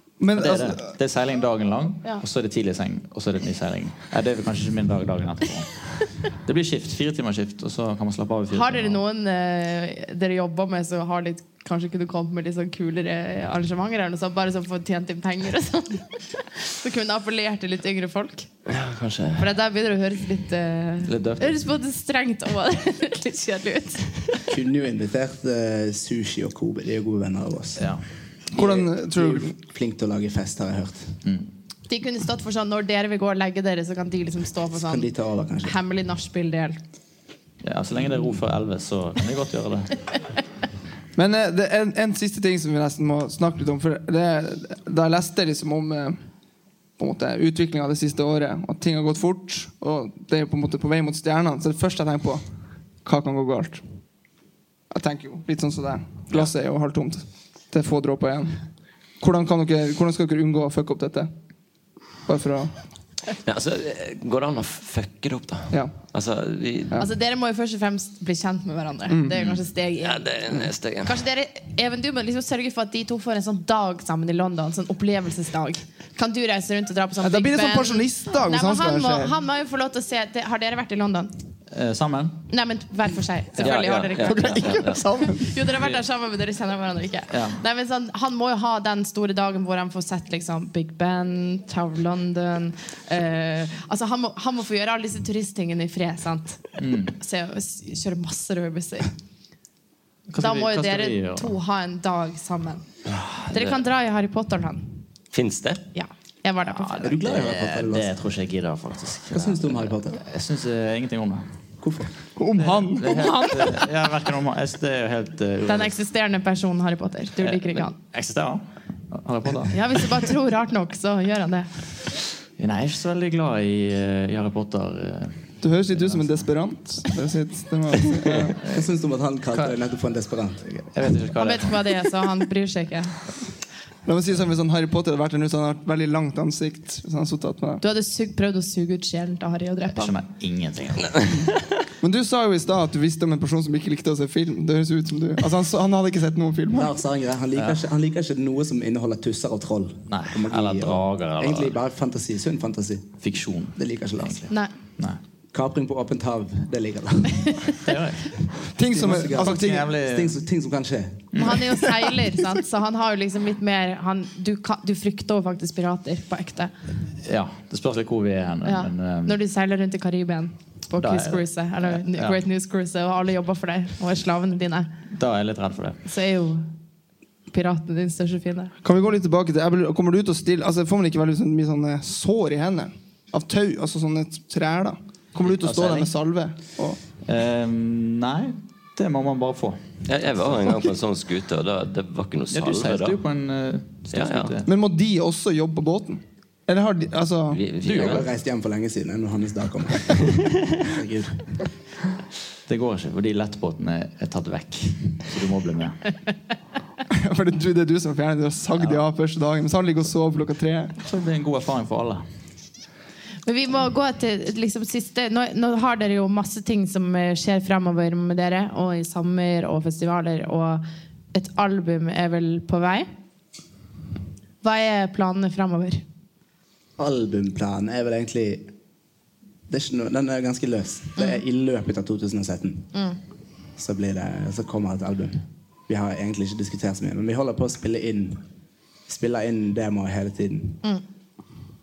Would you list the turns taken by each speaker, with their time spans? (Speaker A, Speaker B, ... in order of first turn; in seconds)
Speaker A: 0.2-0.9, 28.5-29.5, 41.1-46.2, 47.0-52.4, 53.0-53.9, 54.9-58.7, 59.2-61.3, 62.2-62.8, 65.7-66.0, 69.1-69.3, 77.2-79.3, 84.2-85.6, 112.3-113.9, 125.6-128.6, 134.0-137.8, 142.0-146.9, 158.7-159.9, 178.8-187.0, 194.6-197.6, 207.1-210.9
Speaker B: 0.3-9.0, 21.0-21.6, 31.2-31.5, 37.6-40.1, 81.7-82.4, 83.6-84.6, 87.3-87.6, 96.8-97.2, 100.3-101.5, 106.7-111.5, 112.5-116.0, 117.4-119.8, 122.6-126.5, 128.4-128.9, 129.5-129.8, 130.6-131.9, 139.9-141.3, 150.1-151.7, 153.2-155.2, 157.8-158.5, 159.3-160.4, 161.3-161.7, 167.2-169.3, 171.0-172.4, 175.1-176.0, 185.4-186.1, 187.2-189.8, 192.5-194.7, 197.8-198.2, 202.7-206.1, 208.8-209.0, 211.0-212.2
Speaker C: 8.5-18.5, 19.4-24.4, 31.9-35.1, 35.6-36.8, 67.0-70.3, 71.0-81.3, 82.5-99.1, 100.4-102.8, 103.5-105.0, 105.9-107.1, 115.6-118.0, 119.7-121.7, 131.3-133.2, 137.8-140.1, 161.4-166.7, 168.6-174.9, 176.0-176.7, 177.5-178.7, 213.4-223.1, 224.6-226.0
Speaker D: 18.6-19.4, 63.4-67.0, 70.0-71.2, 83.6-85.0, 105.3-105.9, 190.1-193.2, 194.1-194.5, 197.5-198.3
Speaker E: 24.5-27.9, 28.5-31.2, 34.7-35.7, 107.0-108.1, 109.3-110.2, 111.8-112.1, 128.7-130.7, 146.7-153.2, 153.7-154.5, 155.5-157.7, 158.9-161.6, 197.9-201.6, 227.0-228.7, 229.7-232.9, 233.8-238.4, 239.1-240.8